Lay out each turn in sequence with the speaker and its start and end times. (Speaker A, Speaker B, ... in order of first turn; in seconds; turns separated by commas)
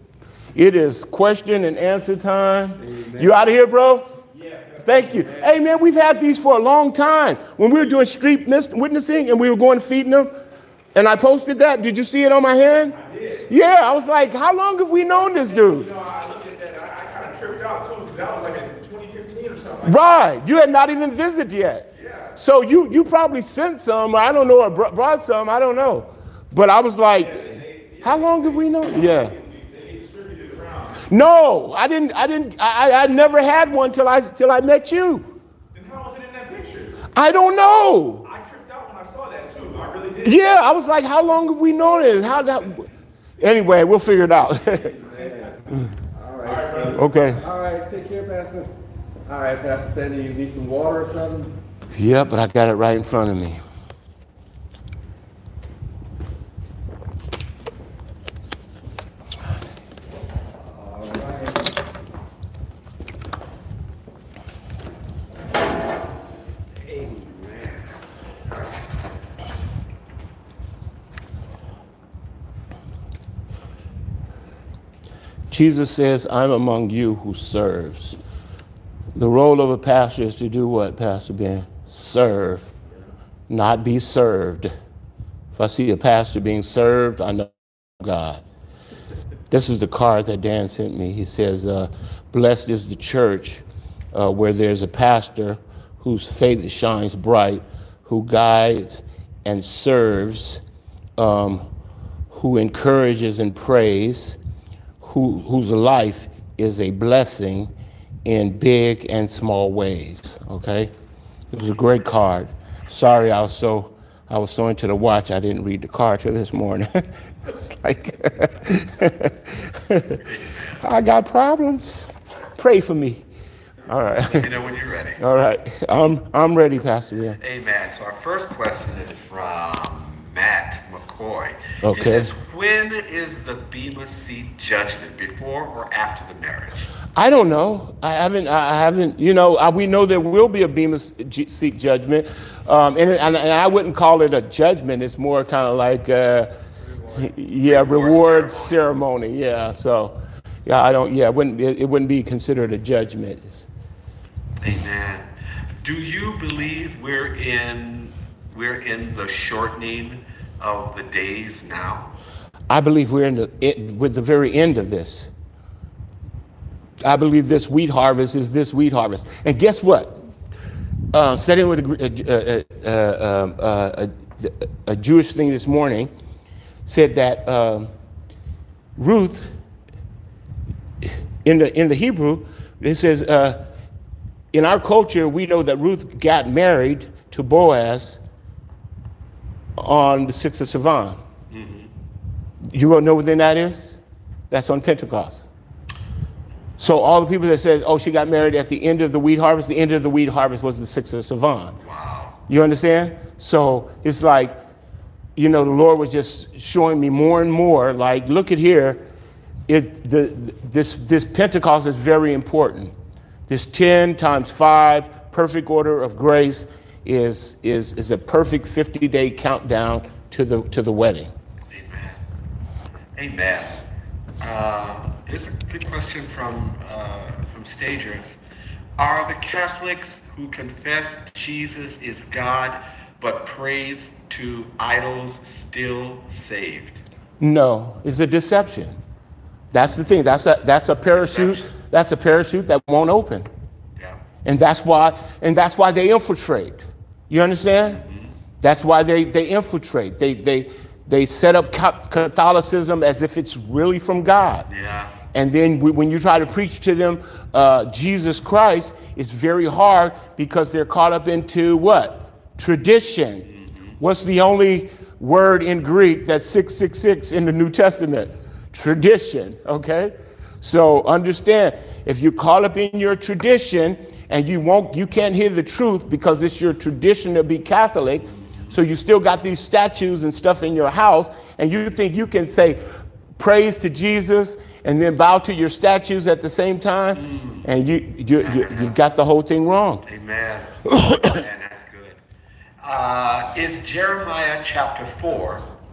Speaker A: 0.5-4.1, Speaker B: 2.8-3.4, Speaker C: 4.4-5.4, Speaker A: 4.8-10.3, Speaker A: 10.9-15.9, Speaker C: 13.1-13.4, Speaker C: 15.5-20.0, Speaker A: 19.8-29.3, Speaker C: 27.5-28.4, Speaker C: 29.3-31.0, Speaker A: 31.1-35.3, Speaker C: 35.7-37.1, Speaker A: 37.1-38.2, Speaker C: 38.2-40.4, Speaker A: 40.2-42.9, Speaker A: 43.4-44.9, Speaker B: 45.0-45.6, Speaker B: 46.1-48.7, Speaker C: 46.7-47.1, Speaker A: 47.0-47.4, Speaker B: 49.2-51.5, Speaker A: 51.9-53.6, Speaker B: 60.8-61.5, Speaker B: 66.8-67.8, Speaker A: 75.5-78.2, Speaker A: 79.1-82.7, Speaker A: 83.5-84.7, Speaker A: 85.5-88.4, Speaker A: 89.5-100.6, Speaker A: 101.2-101.6, Speaker A: 102.3-104.4, Speaker A: 105.0-107.7, Speaker A: 108.2-110.9, Speaker A: 111.5-120.2, Speaker D: 120.2-120.8, Speaker A: 120.8-123.2, Speaker A: 123.9-124.5, Speaker D: 124.2-125.2, Speaker A: 125.2-127.4, Speaker D: 127.4-136.8, Speaker A: 131.8-132.3, Speaker A: 137.2-146.5, Speaker A: 147.1-153.7, Speaker D: 147.6-148.8, Speaker D: 154.6-155.2, Speaker D: 155.8-162.1, Speaker A: 162.7-165.3, Speaker A: 167.0-170.2, Speaker A: 171.1-176.1, Speaker A: 176.8-177.9, Speaker A: 178.9-179.5, Speaker A: 181.0-183.6, Speaker A: 184.5-188.2, Speaker A: 189.8-191.2, Speaker D: 191.5-191.9, Speaker A: 192.7-194.0, Speaker A: 194.5-195.5, Speaker A: 196.8-201.8, Speaker D: 201.8-202.3, Speaker A: 202.5-204.5, Speaker A: 205.3-209.0, Speaker A: 209.7-212.9, Speaker A: 213.5-221.3, Speaker D: 221.7-222.2, Speaker D: 223.2-223.8, Speaker D: 224.4-228.2, Speaker D: 229.0-237.0, Speaker A: 237.4-238.9, Speaker A: 239.7-243.5, Speaker D: 241.1-241.7, Speaker D: 244.0-244.2, Speaker A: 244.4-248.0, Speaker D: 247.8-248.3, Speaker A: 248.6-254.7, Speaker D: 254.7-255.2, Speaker A: 255.3-263.4, Speaker D: 263.4-263.9, Speaker A: 264.0-282.8, Speaker A: 283.4-290.0, Speaker D: 287.1-287.6, Speaker D: 288.4-288.9, Speaker D: 290.1-292.2, Speaker A: 290.9-291.3, Speaker D: 292.8-295.7